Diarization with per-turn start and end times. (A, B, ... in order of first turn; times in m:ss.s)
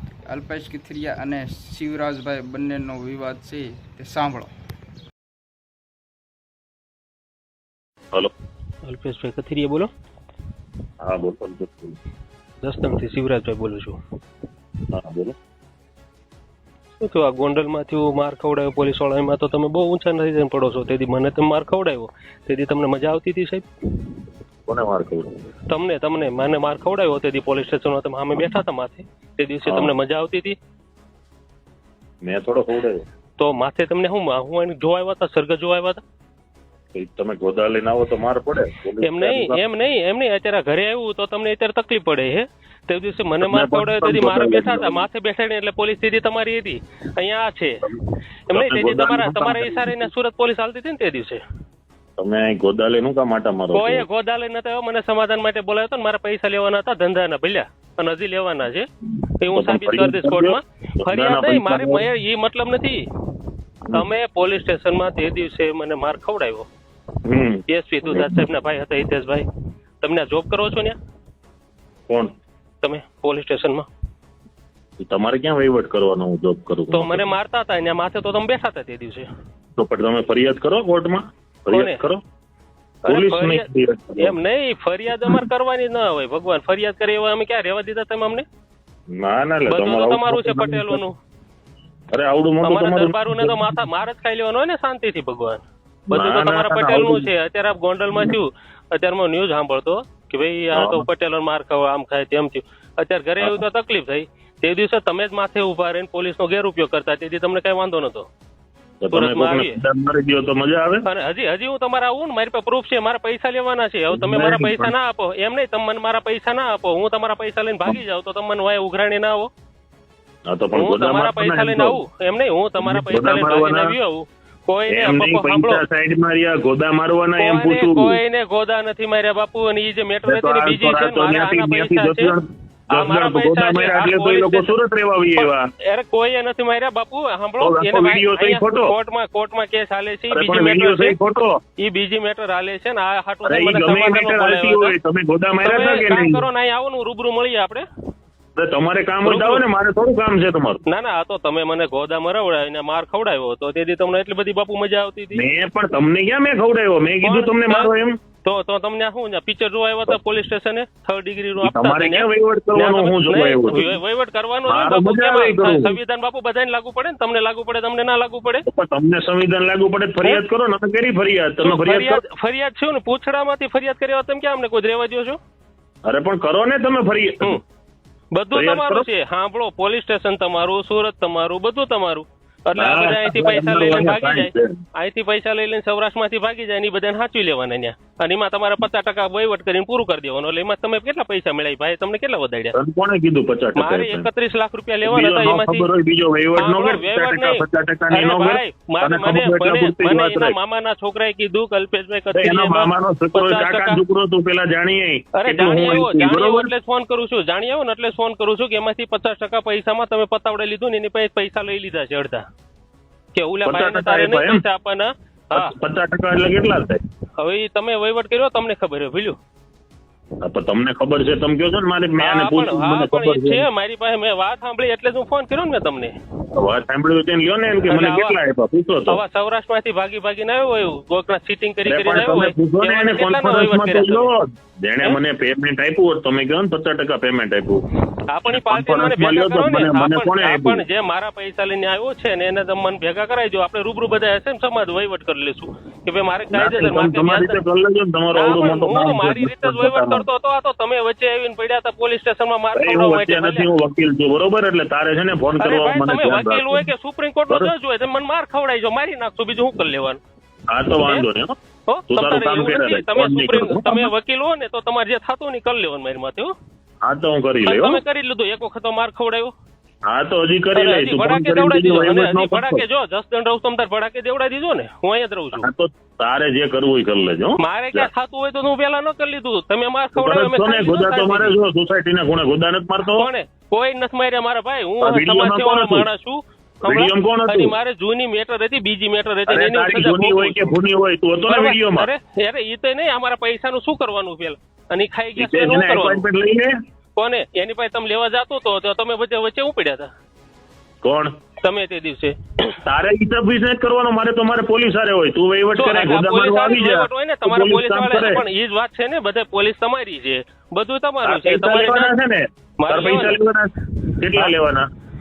0:00.3-0:04.5 A
0:08.8-0:09.9 B
0:11.0-0:12.0 C
0:12.6-0:14.0 B
0:14.9-0:15.4 C
0:17.0-0:24.1 B
0:24.7-0:25.4 C
0:25.7-0:30.6 B
0:29.7-0:29.9 C
0:32.2-0:33.0 C
0:33.4-0:36.0 B
0:36.9-0:39.6 C
0:39.0-0:47.9 B
0:43.4-0:45.0 C
0:48.5-0:50.1 C
0:48.5-0:51.4 B
0:52.2-0:54.1 C
0:53.7-0:58.9 B
0:59.4-1:03.0 B
0:59.5-1:02.1 C
1:03.9-1:06.7 B
1:07.2-1:08.4 C
1:07.7-1:09.4 B
1:10.0-1:11.0 B
1:12.8-1:13.9 B
1:15.0-1:17.4 C
1:16.9-1:19.3 B
1:19.8-1:22.2 C
1:21.7-1:22.0 B
1:23.0-1:24.4 C
1:23.0-1:23.7 B
1:24.2-1:28.4 B
1:29.1-1:31.0 C
1:29.7-1:31.2 B
1:32.1-1:33.8 C
1:32.6-1:48.3 B
1:36.1-1:37.3 C
1:40.7-1:41.1 C
1:43.4-1:43.6 C
1:49.0-1:51.1 C
1:49.1-1:49.8 B
1:51.0-1:59.5 B
1:54.1-1:54.9 C
2:00.5-2:02.0 C
2:00.8-2:05.8 B
2:02.8-2:04.0 C
2:04.9-2:08.2 C
2:07.4-2:12.4 B
2:10.2-2:15.7 C
2:12.9-2:14.7 B
2:15.4-2:21.2 B
2:17.6-2:18.9 C
2:20.3-2:21.6 C
2:21.8-2:25.0 B
2:23.4-2:26.4 C
2:25.6-2:27.8 B
2:28.6-2:30.8 C
2:29.2-2:29.6 B
2:30.9-2:35.4 B
2:35.3-2:38.2 C
2:37.2-2:37.9 B
2:38.4-2:48.6 B
2:41.6-2:44.0 C
2:44.7-2:46.0 C
2:48.7-2:52.2 C
2:51.6-2:55.4 B
2:56.0-2:57.6 C
2:58.3-3:12.8 B
2:58.5-2:59.1 C
3:02.8-3:04.8 C
3:12.7-3:14.3 C
3:13.8-3:15.9 B
3:15.0-3:20.6 C
3:16.6-3:24.0 B
3:22.3-3:26.7 C
3:25.4-3:32.4 B
3:33.4-3:35.7 B
3:33.6-3:34.6 C
3:35.5-3:37.0 C
3:37.4-3:39.4 B
3:40.4-3:43.7 C
3:42.2-3:46.2 B
3:46.5-3:49.2 C
3:47.9-3:48.4 B
3:49.1-3:54.3 B
3:51.8-3:57.8 C
3:58.3-4:07.6 B
3:58.4-4:00.8 C
4:06.5-4:10.3 C
4:08.4-4:13.7 B
4:12.8-4:16.9 C
4:15.6-4:20.2 B
4:20.7-4:21.6 C
4:21.9-4:26.5 B
4:22.1-4:24.1 C
4:27.0-4:28.0 C
4:27.6-4:29.5 B
4:30.1-4:32.8 C
4:30.8-4:35.7 B
4:35.6-4:38.1 C
4:37.6-4:41.6 B
4:40.2-4:43.3 C
4:43.1-4:50.8 B
4:45.0-4:46.1 C
4:46.8-4:47.8 C
4:49.5-4:52.1 C
4:51.5-4:56.2 B
4:55.4-4:56.7 C
4:57.2-5:00.1 B
5:01.0-5:01.3 C
5:01.6-5:02.8 B
5:02.8-5:08.4 C
5:05.8-5:12.1 B
5:11.2-5:14.9 C
5:12.8-5:13.4 B